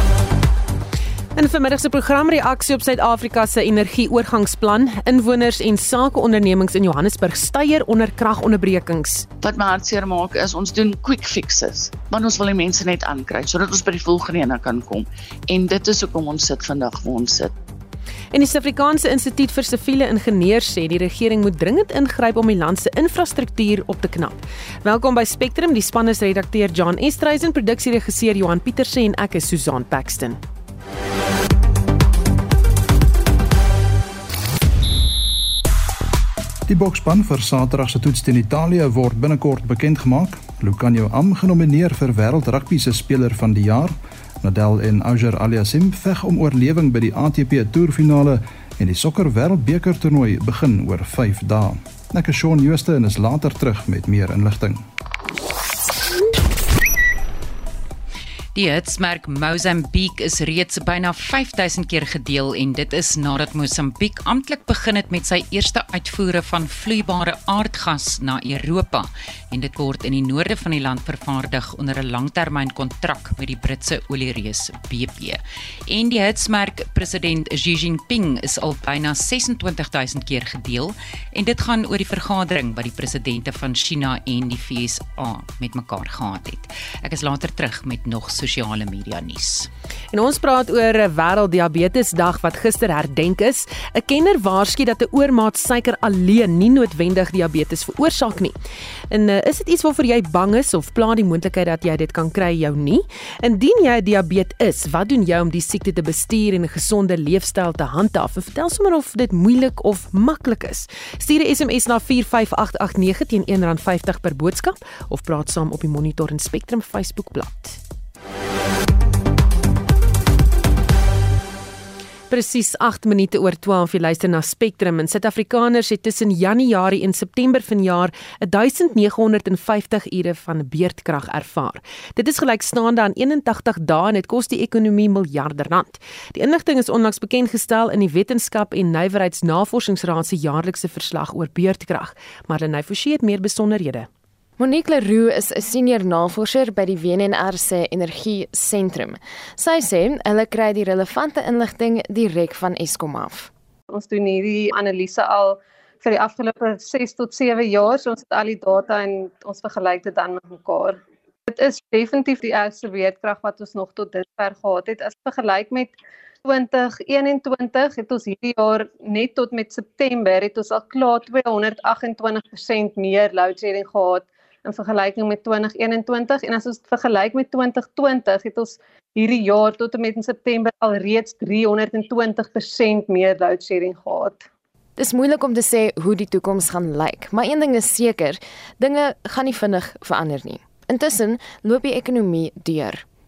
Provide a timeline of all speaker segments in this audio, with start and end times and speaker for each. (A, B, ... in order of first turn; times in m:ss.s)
0:01.4-0:09.3 A
0:09.4-0:17.5 B
0:18.3-0:30.4 A
0:36.7-0:54.8 C
0:58.5-1:29.7 D
1:30.1-1:38.5 A
1:39.1-1:57.8 A
2:02.3-2:24.1 A
2:24.6-2:33.5 E
2:33.9-3:04.4 F
3:05.0-3:13.0 E